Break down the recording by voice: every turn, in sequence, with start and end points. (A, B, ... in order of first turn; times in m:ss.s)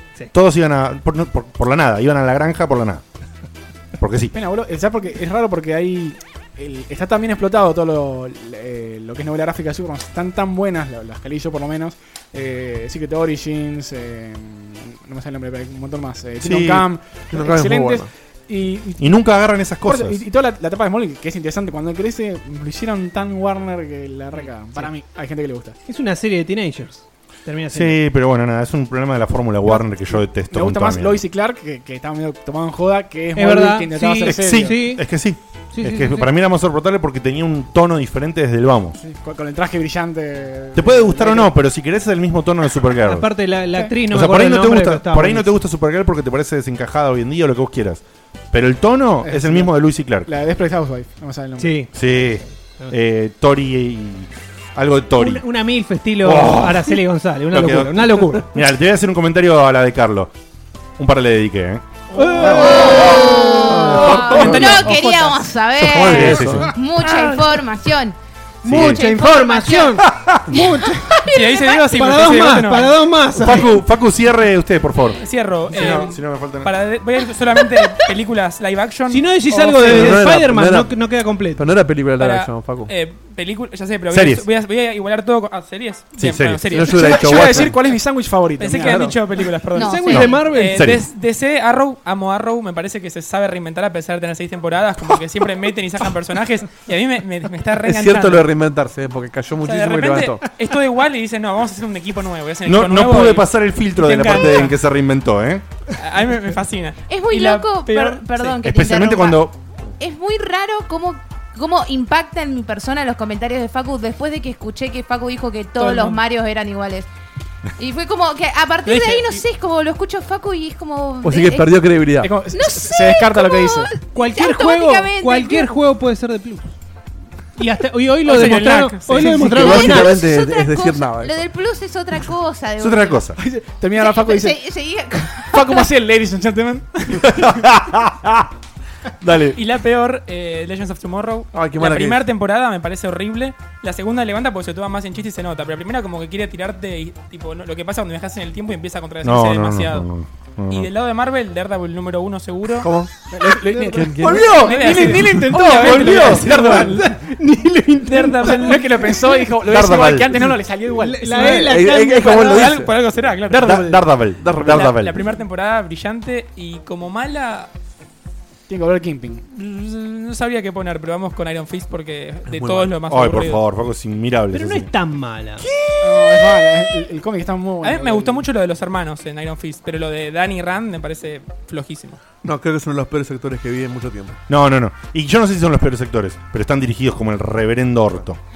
0:00.3-0:03.0 A
0:04.0-0:04.3 A
0:04.3-0:19.2 B
0:16.4-0:16.9 A
0:17.3-0:18.1 C
0:19.0-0:20.2 A
0:19.8-0:25.8 B
0:25.9-0:28.0 D
0:27.7-0:31.2 A
0:29.7-0:34.9 B
0:33.4-0:35.1 D
0:34.2-0:39.0 A
0:35.7-0:36.3 D
0:39.0-0:41.5 B
0:40.8-0:43.3 A
0:43.0-0:45.5 D
0:44.1-0:50.3 A
0:49.2-0:49.7 B
0:50.3-0:51.9 B
0:51.6-0:51.9 D
0:51.9-0:55.4 A
0:55.2-0:58.6 D
0:56.2-0:57.0 A
0:57.5-1:00.3 A
1:01.0-1:01.8 A
1:02.1-1:05.3 D
1:02.4-1:08.2 E
1:04.0-1:04.5 C
1:04.0-1:04.6 A
1:04.2-1:05.3 F
1:05.8-1:06.7 C
1:06.0-1:06.7 A
1:07.0-1:07.6 D
1:08.6-1:13.8 D
1:08.7-1:09.0 A
1:08.7-1:11.8 E
1:11.3-1:13.0 F
1:13.4-1:16.8 A
1:15.2-1:20.3 F
1:19.1-1:21.6 D
1:19.8-1:21.0 C
1:21.5-1:22.9 C
1:22.2-1:27.7 F
1:24.1-1:24.5 A
1:26.2-1:26.8 A
1:26.7-1:27.8 C
1:26.9-1:29.2 B
1:28.6-1:38.4 F
1:28.8-1:29.2 C
1:29.8-1:30.3 E
1:29.9-1:30.9 D
1:30.1-1:31.1 A
1:37.8-1:40.4 C
1:39.6-1:44.8 F
1:42.7-1:45.6 A
1:46.0-1:48.6 F
1:47.1-1:57.1 E
1:48.6-1:49.6 A
1:55.8-1:56.2 F
1:57.8-2:01.8 E
1:58.9-1:59.4 F
2:01.2-2:02.3 C
2:02.2-2:03.9 B
2:02.5-2:05.7 E
2:04.1-2:06.7 D
2:07.6-2:10.2 D
2:08.3-2:09.5 F
2:09.4-2:11.4 C
2:09.5-2:13.2 E
2:12.8-2:13.4 A
2:13.4-2:14.6 B
2:14.0-2:15.8 E
2:15.4-2:17.1 B
2:17.3-2:17.7 C
2:17.4-2:18.4 A
2:19.2-2:19.6 C
2:19.5-2:30.1 F
2:21.5-2:22.2 C
2:29.2-2:30.9 A
2:30.7-2:32.9 F
2:32.8-2:33.1 C
2:33.3-2:37.1 B
2:33.7-2:39.3 D
2:33.9-2:35.5 C
2:34.5-2:36.9 F
2:38.1-2:38.9 F
2:38.4-2:41.6 B
2:39.7-2:40.3 A
2:41.0-2:42.8 D
2:41.4-2:42.9 C
2:41.4-2:44.0 F
2:43.5-2:43.9 B
2:43.5-2:45.3 A
2:44.4-2:45.0 C
2:44.6-2:47.7 F
2:48.7-2:49.4 B
2:49.5-2:53.6 F
2:52.5-2:52.9 C
2:53.1-2:54.9 A
2:54.5-2:55.7 D
2:56.0-2:58.5 B
2:57.8-3:02.2 F
3:02.4-3:04.4 C
3:04.5-3:08.4 A